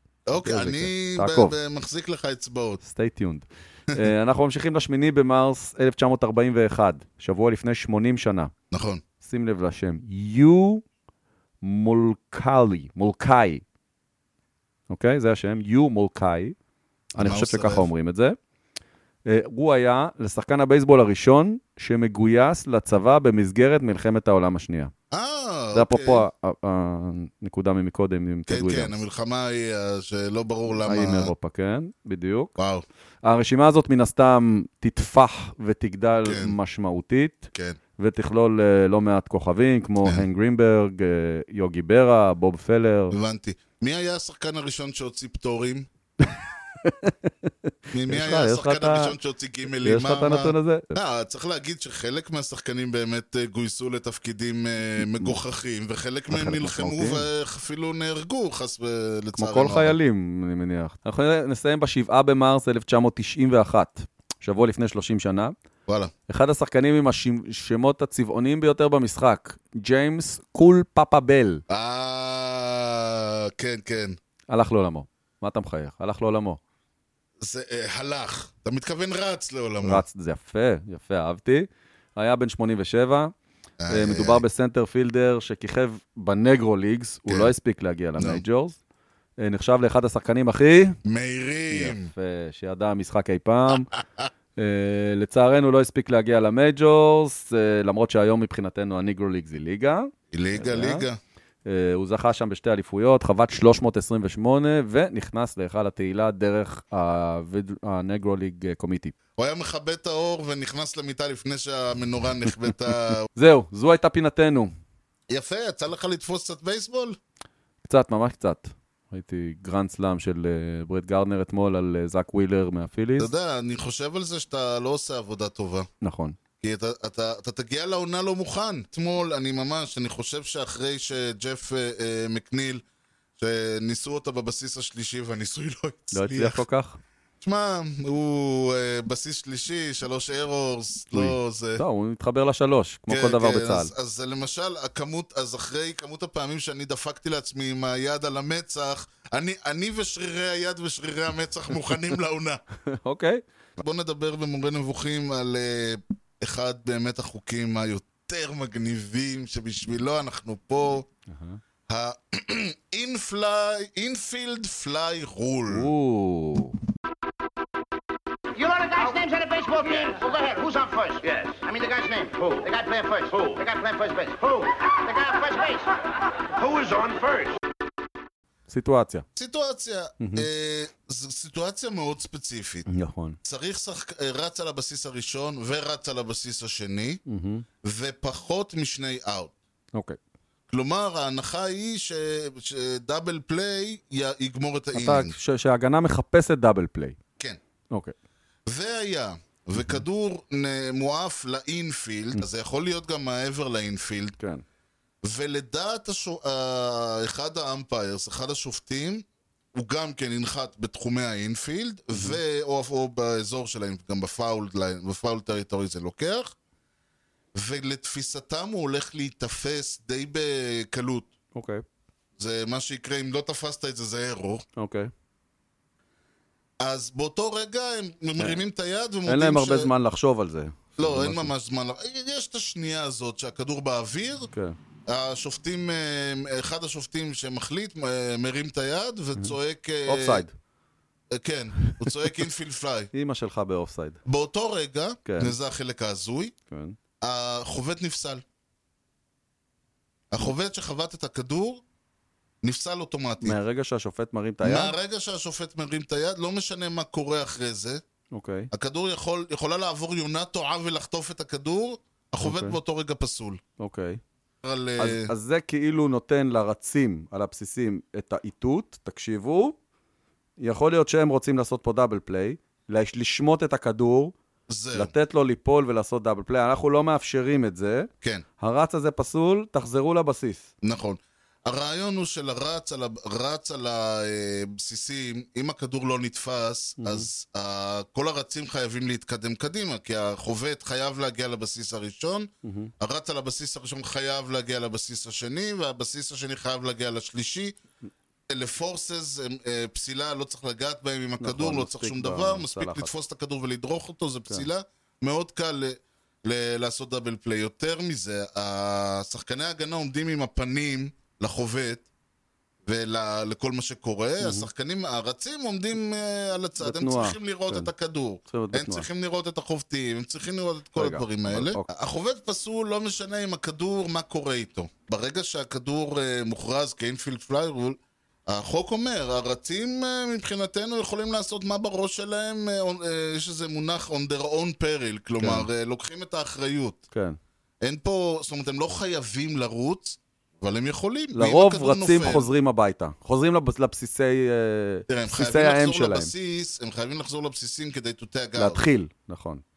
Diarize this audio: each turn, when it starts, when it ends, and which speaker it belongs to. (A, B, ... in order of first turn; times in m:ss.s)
0:00.3-0:02.8 A
0:00.4-0:01.6 B
0:02.8-0:08.5 B
0:08.7-0:09.0 A
0:09.2-0:10.8 B
0:11.6-0:13.6 B
0:14.9-0:16.6 B
0:17.2-0:17.9 A
0:17.2-0:18.4 B
0:19.3-0:24.9 B
0:25.1-0:26.3 A
0:25.7-0:28.9 B
0:28.5-0:31.3 A
0:30.8-0:32.5 B
0:32.6-0:32.8 A
0:33.2-0:43.2 B
0:36.2-0:36.6 A
0:43.1-0:45.9 A
0:46.8-0:49.2 B
0:47.9-1:00.0 A
0:49.7-0:51.0 B
0:55.0-0:55.4 B
0:56.3-0:57.3 B
0:59.4-1:05.6 B
1:06.3-1:11.6 B
1:11.7-1:14.2 A
1:14.5-1:16.6 B
1:17.4-1:20.0 A
1:19.8-1:23.3 B
1:23.8-1:24.4 A
1:23.9-1:28.8 B
1:27.3-1:27.5 A
1:29.4-1:31.0 B
1:31.0-1:32.1 A
1:31.7-1:33.9 B
1:34.6-1:41.0 B
1:40.3-1:41.2 A
1:41.7-1:49.1 B
1:49.4-1:53.3 A
1:53.3-1:54.7 B
1:55.3-1:57.2 A
1:57.8-2:03.3 B
2:03.2-2:05.9 A
2:06.0-2:06.4 B
2:06.6-2:12.8 A
2:13.4-2:16.6 A
2:16.1-2:17.0 B
2:17.4-2:21.8 A
2:21.1-2:23.9 B
2:23.1-2:32.6 A
2:32.9-2:33.4 B
2:33.8-2:41.1 A
2:41.3-2:41.6 B
2:41.9-2:45.9 A
2:45.7-2:46.8 B
2:48.5-2:55.9 C
2:56.5-2:57.6 C
2:58.7-2:59.2 B
2:59.3-3:02.9 A
3:00.2-3:00.5 B
3:02.9-3:03.4 B
3:03.4-3:07.2 A
3:07.3-3:07.6 B
3:07.8-3:09.5 A
3:10.7-3:15.3 A
3:14.9-3:17.2 B
3:18.7-3:24.4 A
3:25.2-3:36.6 A
3:32.1-3:32.4 B
3:37.6-3:41.3 A
3:41.5-3:41.8 B
3:42.4-3:44.6 A
3:44.8-3:45.1 B
3:46.8-3:49.9 A
3:49.3-3:51.5 B
3:51.0-3:54.5 A
3:54.5-3:54.8 B
3:55.1-4:00.4 A
4:00.1-4:00.5 B
4:01.3-4:03.1 A
4:02.0-4:02.3 B
4:03.1-4:04.2 B
4:04.3-4:06.6 A
4:05.2-4:05.6 B
4:06.7-4:07.0 B
4:07.2-4:08.4 A
4:10.3-4:11.8 A
4:12.6-4:13.6 A
4:13.4-4:15.0 B
4:14.6-4:18.0 A
4:18.3-4:18.7 B
4:18.7-4:23.6 A
4:22.4-4:22.8 B
4:23.8-4:24.2 B
4:24.6-4:25.3 A
4:25.0-4:29.8 B
4:30.6-4:34.3 B
4:34.7-4:35.1 A
4:34.9-4:38.1 B
4:38.6-4:40.7 B
4:40.8-4:52.5 A
4:47.0-4:47.3 B
4:52.6-4:52.9 B
4:53.0-4:57.8 A
4:58.5-5:12.0 A
5:01.4-5:03.1 B
5:12.9-5:28.0 A
5:14.4-5:14.7 B
5:16.8-5:17.9 B
5:18.5-5:19.1 B
5:21.0-5:21.9 B
5:28.5-5:37.0 A
5:35.4-5:35.7 B
5:37.1-5:37.4 B
5:37.8-5:42.5 A
5:41.3-5:46.3 B
5:45.1-5:48.8 A
5:48.6-5:49.6 B